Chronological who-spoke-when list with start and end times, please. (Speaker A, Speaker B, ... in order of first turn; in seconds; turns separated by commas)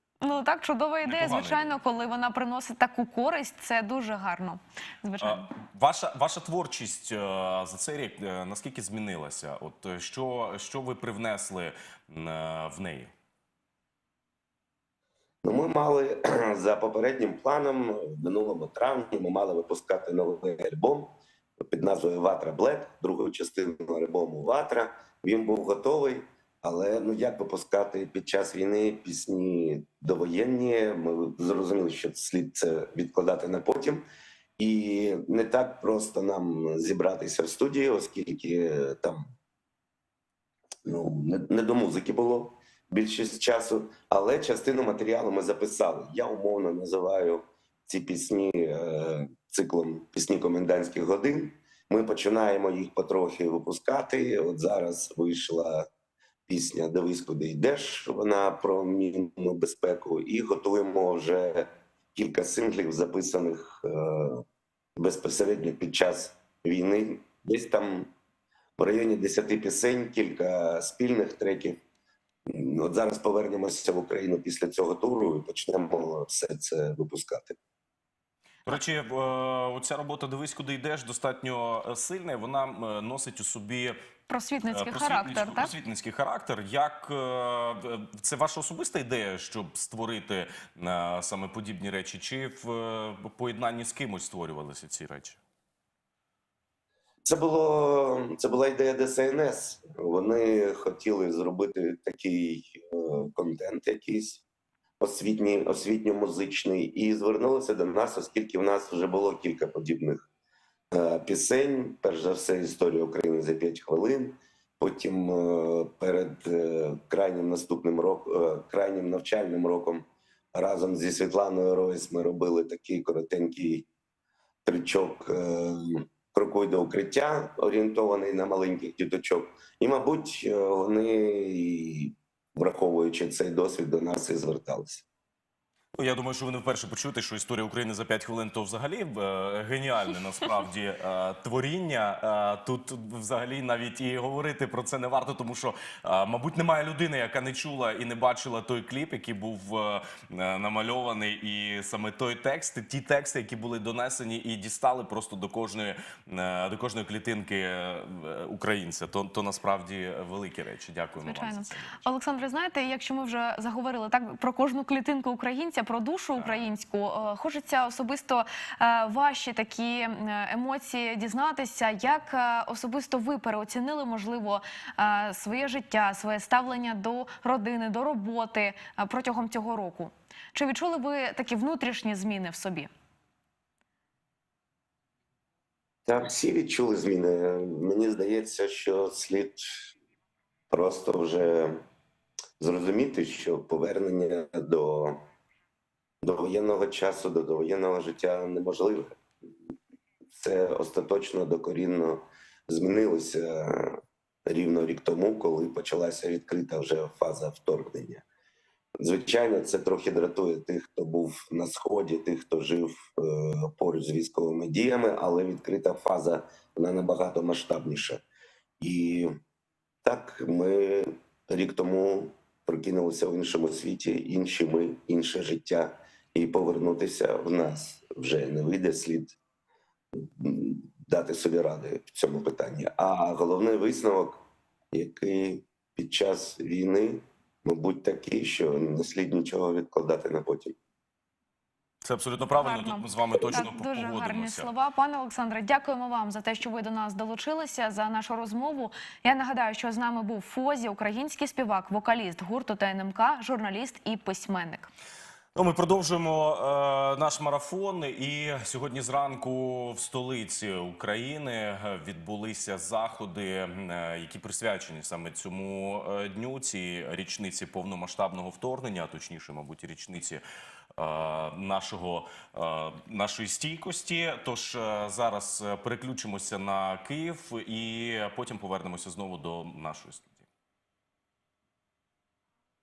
Speaker A: 0.2-5.5, Speaker B: 1.0-1.8, Speaker B: 5.2-13.1, Speaker C: 15.4-21.1, Speaker C: 21.7-34.1, Speaker C: 34.6-39.3, Speaker C: 40.9-55.9, Speaker C: 56.5-64.5, Speaker C: 65.0-68.1, Speaker C: 68.8-71.8, Speaker C: 72.5-77.6, Speaker B: 78.7-84.0, Speaker A: 84.3-85.7, Speaker B: 84.7-95.4, Speaker C: 97.2-104.4, Speaker C: 105.0-110.3, Speaker C: 110.9-123.9, Speaker C: 124.7-135.1, Speaker B: 136.0-162.1, Speaker A: 161.2-182.9, Speaker C: 186.1-189.9, Speaker C: 190.7-191.8, Speaker C: 192.6-195.2, Speaker C: 196.2-199.2, Speaker C: 200.3-208.2, Speaker C: 209.0-218.2, Speaker C: 218.8-219.3, Speaker C: 220.0-229.4, Speaker C: 230.1-240.8, Speaker B: 242.0-244.7, Speaker A: 242.5-254.9, Speaker B: 255.6-270.4, Speaker B: 271.0-280.4